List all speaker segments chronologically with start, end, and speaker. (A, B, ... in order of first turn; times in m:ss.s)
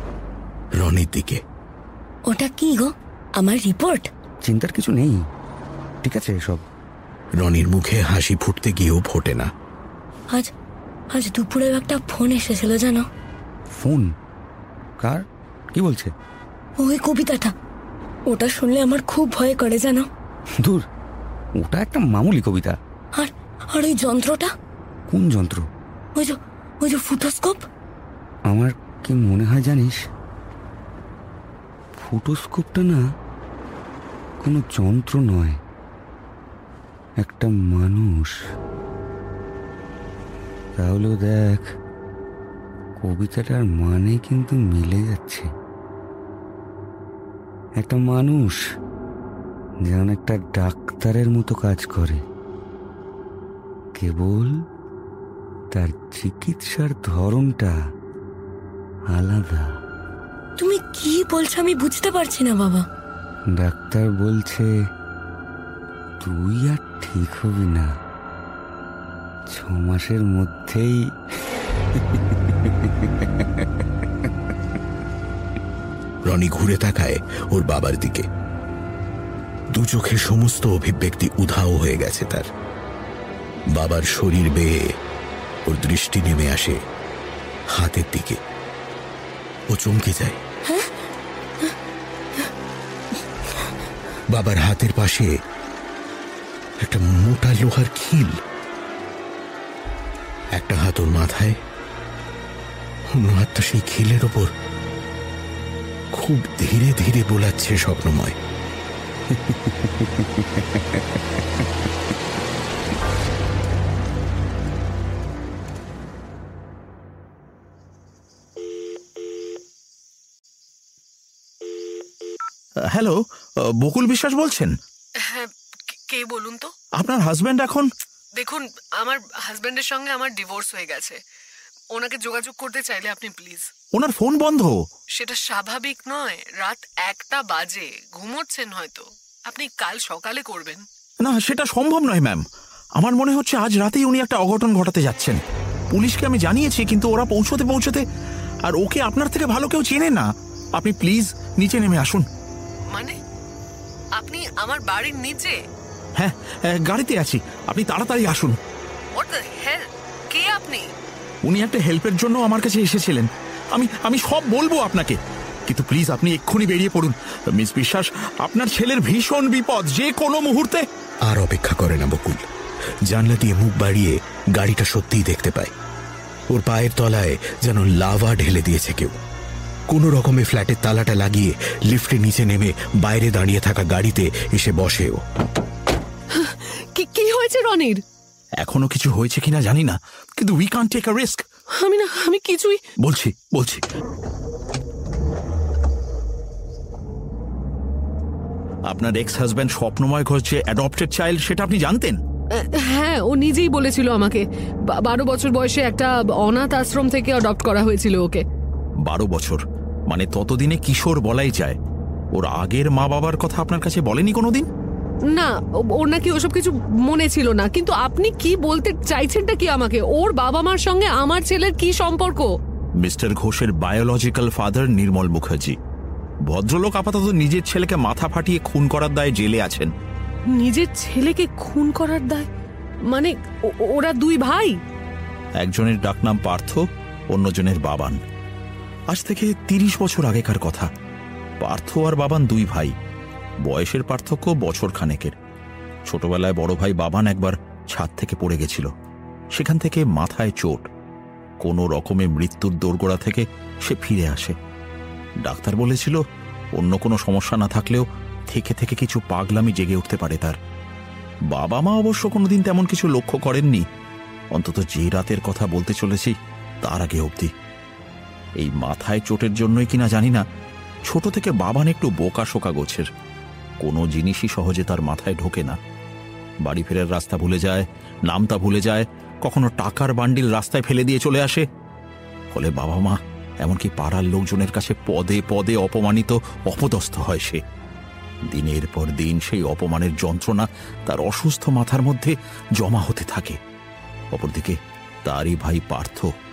0:00.8-0:01.4 A
0:02.3-0:04.1 B
0:04.4-0:05.2 C
0:06.0-0:06.6 C
0:07.4-0:09.5 A
0:11.1-0:13.1 B
0:13.7-0:14.1 C
0:15.0-0:16.1 C
0:16.8-0:17.5 B
0:18.3-0:20.1 B
0:21.6-0:22.8 C
0:23.1-0:24.5 B
0:25.1-0:25.7 C
0:26.1-0:27.6 B
0:28.5-0:30.0 C
0:32.0-0:33.0 C
0:34.4-0:35.6 C
0:37.2-0:38.3 C
0:40.8-0:41.7 C
0:43.0-0:45.5 C
0:47.8-0:48.6 C
0:49.8-0:52.2 C
0:54.0-0:54.6 C
0:55.7-0:57.8 C
0:59.1-0:59.8 C
1:00.6-1:02.8 B
1:03.5-1:04.7 C
1:06.2-1:08.0 C
1:09.5-1:11.1 C
1:16.3-1:18.3 A
1:19.7-1:22.5 A
1:23.7-1:24.8 A
1:25.7-1:26.8 A
1:27.7-1:28.4 A
1:29.7-1:30.4 A
1:30.6-1:30.9 B
1:34.3-1:35.3 A
1:36.8-1:38.4 A
1:40.5-1:41.6 A
1:43.1-1:44.5 A
1:46.1-1:48.4 A
1:49.4-1:50.2 C
2:02.9-2:04.7 D
2:05.2-2:06.7 E
2:07.0-2:07.9 D
2:08.4-2:11.2 E
2:11.9-2:13.7 E
2:13.9-2:14.8 D
2:15.2-2:20.8 E
2:21.2-2:22.4 D
2:23.0-2:25.4 D
2:25.9-2:28.0 D
2:28.6-2:32.2 D
2:32.9-2:33.2 E
2:34.2-2:35.6 E
2:36.2-2:38.6 D
2:39.2-2:40.9 E
2:41.4-2:50.8 D
2:51.3-2:52.4 A
2:53.1-2:55.7 A
2:56.5-2:59.1 A
2:59.9-3:05.2 A
3:06.3-3:08.0 E
3:08.6-3:11.4 D
3:11.8-3:12.8 E
3:13.0-3:13.8 D
3:18.9-3:22.2 D
3:22.5-3:28.4 E
3:29.0-3:31.8 D
3:32.3-3:34.7 D
3:35.3-3:42.5 E
3:43.0-3:45.8 D
3:46.4-3:49.9 D
3:50.5-3:52.5 E
3:53.1-3:54.8 E
3:55.6-3:58.2 D
3:59.1-4:00.9 D
4:01.6-4:02.9 D
4:03.6-4:05.3 D
4:06.1-4:08.9 D
4:09.5-4:10.8 D
4:11.6-4:14.6 D
4:15.4-4:16.2 D
4:16.8-4:20.6 D
4:21.5-4:23.8 D
4:24.5-4:27.5 D
4:28.6-4:30.4 D
4:31.1-4:33.1 D
4:33.8-4:35.8 D
4:36.6-4:41.6 D
4:42.5-4:47.6 D
4:48.5-4:53.6 D
4:54.3-4:56.3 D